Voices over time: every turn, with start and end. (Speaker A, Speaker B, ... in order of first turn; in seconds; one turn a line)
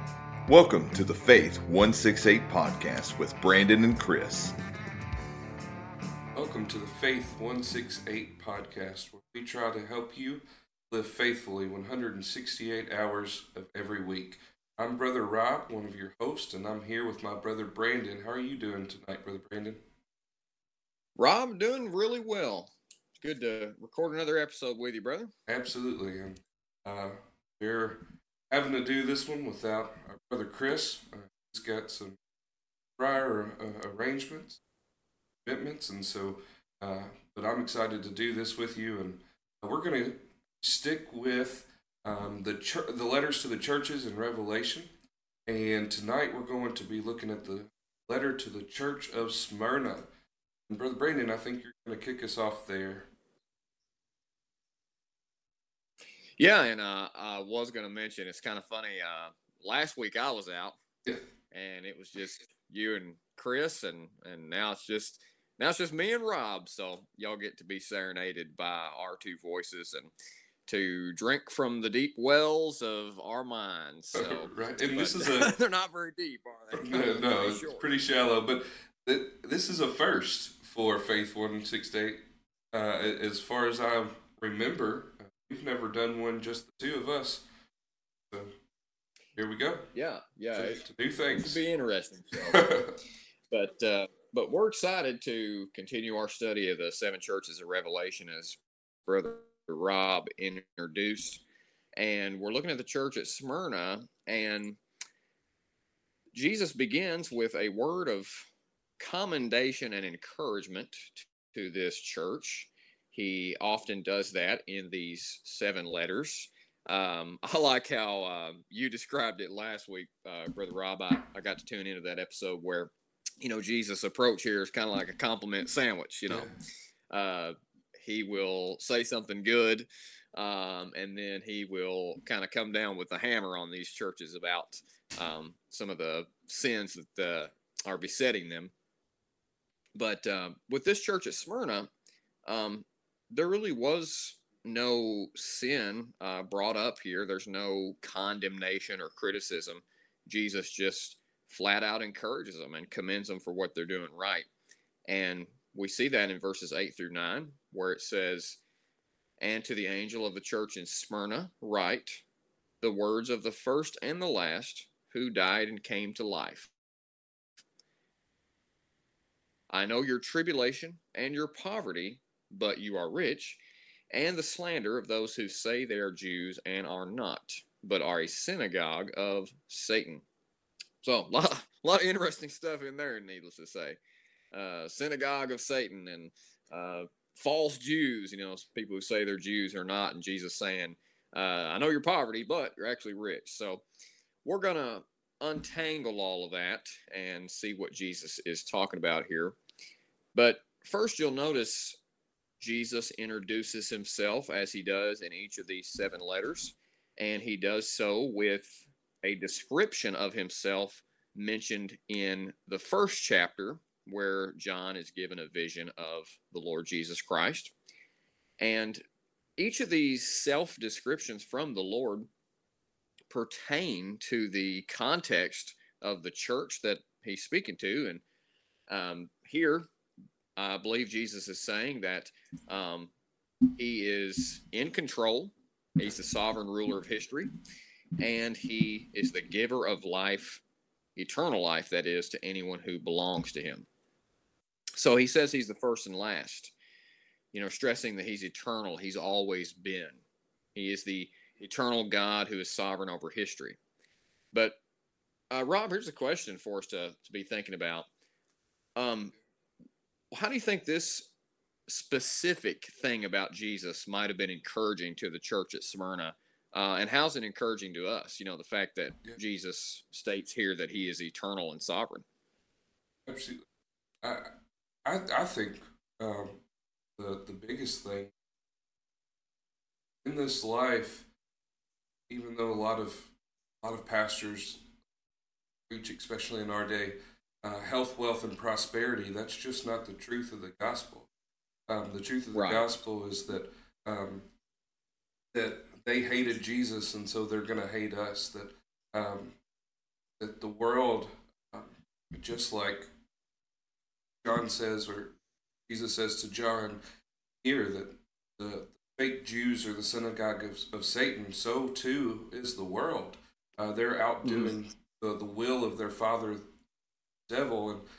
Speaker A: 0.5-4.6
Speaker B: 6.3-19.8
Speaker C: 21.2-25.3
Speaker B: 25.5-32.2
Speaker B: 33.0-34.6
Speaker B: 35.5-44.9
Speaker B: 45.5-50.1
Speaker B: 50.7-53.1
Speaker C: 56.4-60.8
Speaker C: 61.5-70.1
Speaker C: 70.7-77.9
Speaker B: 74.2-75.5
Speaker B: 76.8-87.5
Speaker B: 88.3-88.5
Speaker B: 89.4-89.9
Speaker C: 89.9-92.7
Speaker B: 90.5-91.6
Speaker B: 92.5-92.9
Speaker C: 93.5-101.4
Speaker C: 102.0-104.8
Speaker C: 106.3-126.5
Speaker C: 127.1-138.7
Speaker C: 140.0-141.9
Speaker C: 142.5-154.5
Speaker C: 155.1-158.6
Speaker C: 159.4-162.2
Speaker C: 162.8-166.7
Speaker C: 169.7-173.6
Speaker C: 174.1-180.2
Speaker C: 181.0-184.0
Speaker C: 184.5-193.8
Speaker C: 194.4-199.6
Speaker C: 200.3-202.0
Speaker C: 202.6-217.7
Speaker C: 218.6-219.0
Speaker C: 219.6-222.3
Speaker C: 223.3-228.2
Speaker C: 228.9-229.9
Speaker C: 230.6-233.1
Speaker C: 233.7-237.5
Speaker C: 238.2-240.6
Speaker C: 241.2-243.9
Speaker C: 245.0-246.7
Speaker C: 247.5-250.2
Speaker C: 250.8-253.8
Speaker C: 254.5-254.8
Speaker C: 255.5-258.1
Speaker C: 259.0-259.4
Speaker C: 260.3-261.3
Speaker C: 261.9-272.3
Speaker B: 273.3-273.7
Speaker B: 274.2-274.5
Speaker B: 275.1-276.6
Speaker B: 277.2-278.3
Speaker B: 280.2-281.3
Speaker B: 282.3-284.9
Speaker B: 285.9-291.3
Speaker B: 291.9-294.5
Speaker C: 292.5-292.9
Speaker B: 295.5-299.6
Speaker B: 300.4-303.1
Speaker B: 304.4-305.4
Speaker B: 305.9-307.0
Speaker B: 307.6-316.6
Speaker C: 314.4-314.7
Speaker B: 317.5-318.0